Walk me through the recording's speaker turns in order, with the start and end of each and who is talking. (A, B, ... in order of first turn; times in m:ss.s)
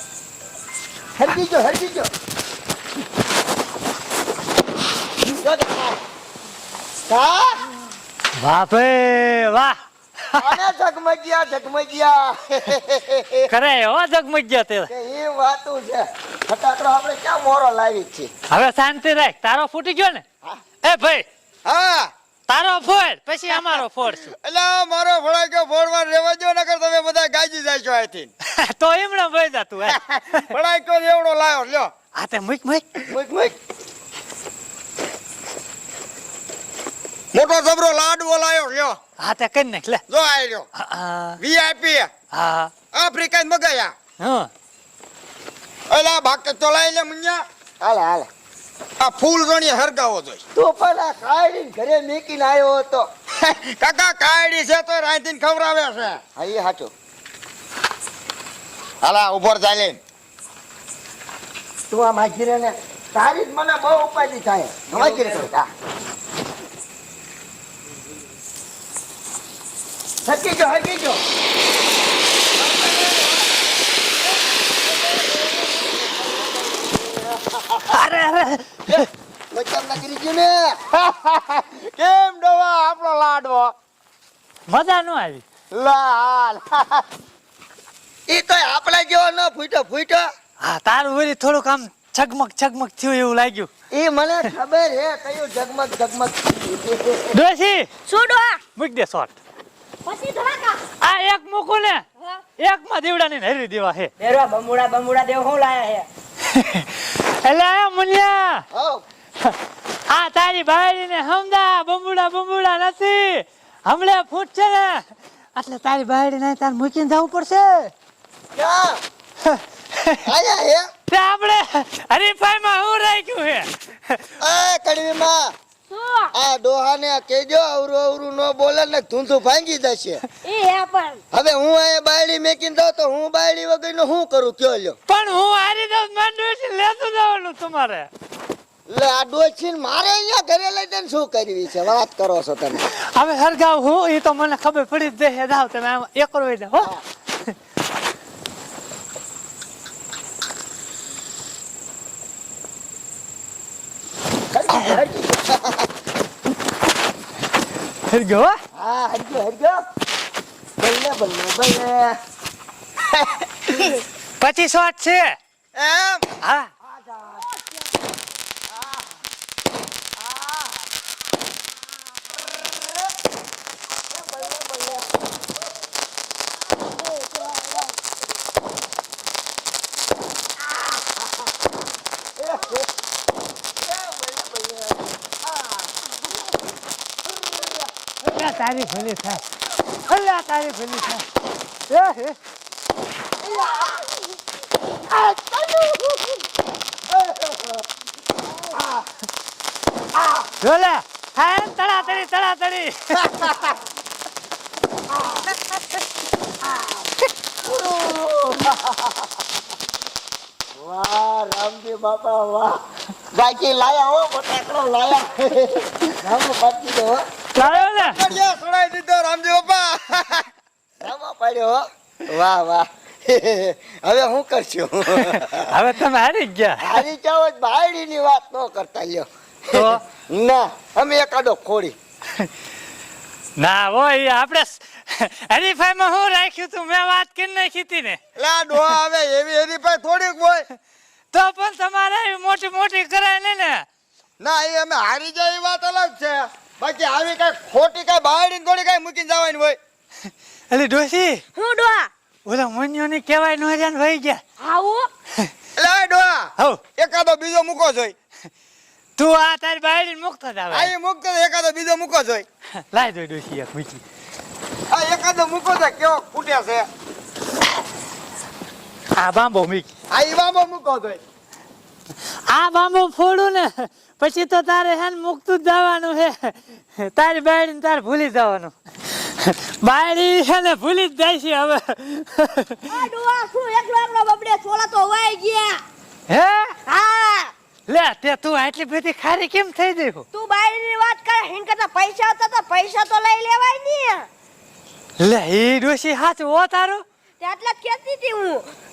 0:01.2-0:02.1 A
0:05.2-0:06.0 A
0:07.1-0:07.6 A
0:08.4-0:09.8 B
0:10.3-0:10.6 B
0:10.4-0:13.5 A
0:13.5-0:14.9 B
0:14.9-0:18.3 A
0:18.5-0:20.2 B
0:20.8-0:21.2 B
0:21.6-0:22.1 C
0:22.5-0:24.3 B
0:24.3-0:28.3 C
0:28.6-0:30.5 B
0:29.9-0:31.9 C
0:32.1-0:32.9 B
0:33.1-0:33.6 A
0:37.3-0:39.0 C
0:39.2-0:40.0 B
0:40.1-0:40.7 C
0:40.8-0:41.4 B
0:41.4-0:42.1 C
0:42.3-0:42.7 B
0:42.9-0:43.9 C
0:44.2-0:44.5 B
0:45.9-0:47.4 C
0:47.8-0:48.3 A
0:49.0-0:50.4 C
0:50.5-0:53.1 A
0:53.4-0:56.2 C
0:56.4-0:56.9 A
0:59.0-1:00.0 C
1:01.9-1:05.7 A
1:04.9-1:05.4 D
1:10.2-1:11.2 A
1:12.6-1:13.4 A
1:14.7-1:17.9 A
1:17.9-1:19.1 B
1:18.9-1:20.8 A
1:20.9-1:23.7 C
1:24.7-1:25.4 B
1:25.7-1:26.9 A
1:28.3-1:30.3 A
1:30.6-1:33.7 B
1:33.9-1:37.4 A
1:37.3-1:37.9 B
1:38.0-1:38.6 E
1:38.8-1:39.3 B
1:40.0-1:40.8 E
1:41.0-1:42.0 B
1:42.2-1:42.4 E
1:42.6-1:44.1 B
1:44.2-1:46.1 D
1:46.5-1:48.6 B
1:48.7-1:49.0 A
1:50.1-1:57.9 B
1:58.5-1:59.0 A
1:59.4-2:00.2 B
2:00.2-2:00.9 A
2:01.1-2:04.3 B
2:04.4-2:05.5 A
2:05.9-2:06.3 E
2:06.3-2:10.2 A
2:10.4-2:11.2 E
2:11.3-2:15.0 A
2:15.1-2:18.1 B
2:18.9-2:22.8 A
2:22.9-2:27.5 B
2:34.5-2:35.9 A
2:34.7-2:35.0 B
2:38.1-2:38.6 B
2:38.7-2:39.8 A
2:40.8-2:42.2 A
2:43.1-2:43.7 A
2:44.4-2:45.4 B
2:45.8-2:46.2 C
2:46.4-2:46.7 B
2:46.9-2:47.5 A
2:54.1-2:55.1 A
2:57.0-2:57.4 E
3:02.4-3:02.9 A
3:03.8-3:05.1 A
3:08.2-3:09.4 B
3:10.1-3:11.2 B
3:11.9-3:12.4 B
3:13.6-3:13.9 A
3:17.2-3:17.8 A
3:20.6-3:23.5 B
3:26.7-3:27.0 A
3:27.6-3:29.0 A
3:30.7-3:32.8 A
3:33.3-3:37.2 A
3:37.5-3:38.2 B
3:37.6-3:40.4 C
3:41.0-3:45.7 A
3:45.2-3:47.0 B
3:46.8-3:52.0 A
3:49.7-3:50.0 B
3:53.6-3:58.2 B
3:58.4-4:00.6 C
4:01.3-4:03.8 B
4:04.4-4:09.8 C
4:10.7-4:11.4 B
4:11.5-4:12.1 E
4:12.4-4:14.4 B
4:14.6-4:15.1 E
4:15.8-4:18.1 C
4:19.2-4:20.9 B
4:20.7-4:22.4 C
4:22.9-4:24.0 B
4:24.9-4:26.9 C
4:29.2-4:29.9 B
4:30.1-4:31.2 C
4:32.5-4:42.8 B
4:42.9-4:45.8 E
4:46.3-4:46.8 B
4:46.9-4:47.5 E
4:47.9-4:50.2 B
4:50.3-4:54.3 E
4:55.2-4:57.0 B
4:57.4-4:58.7 E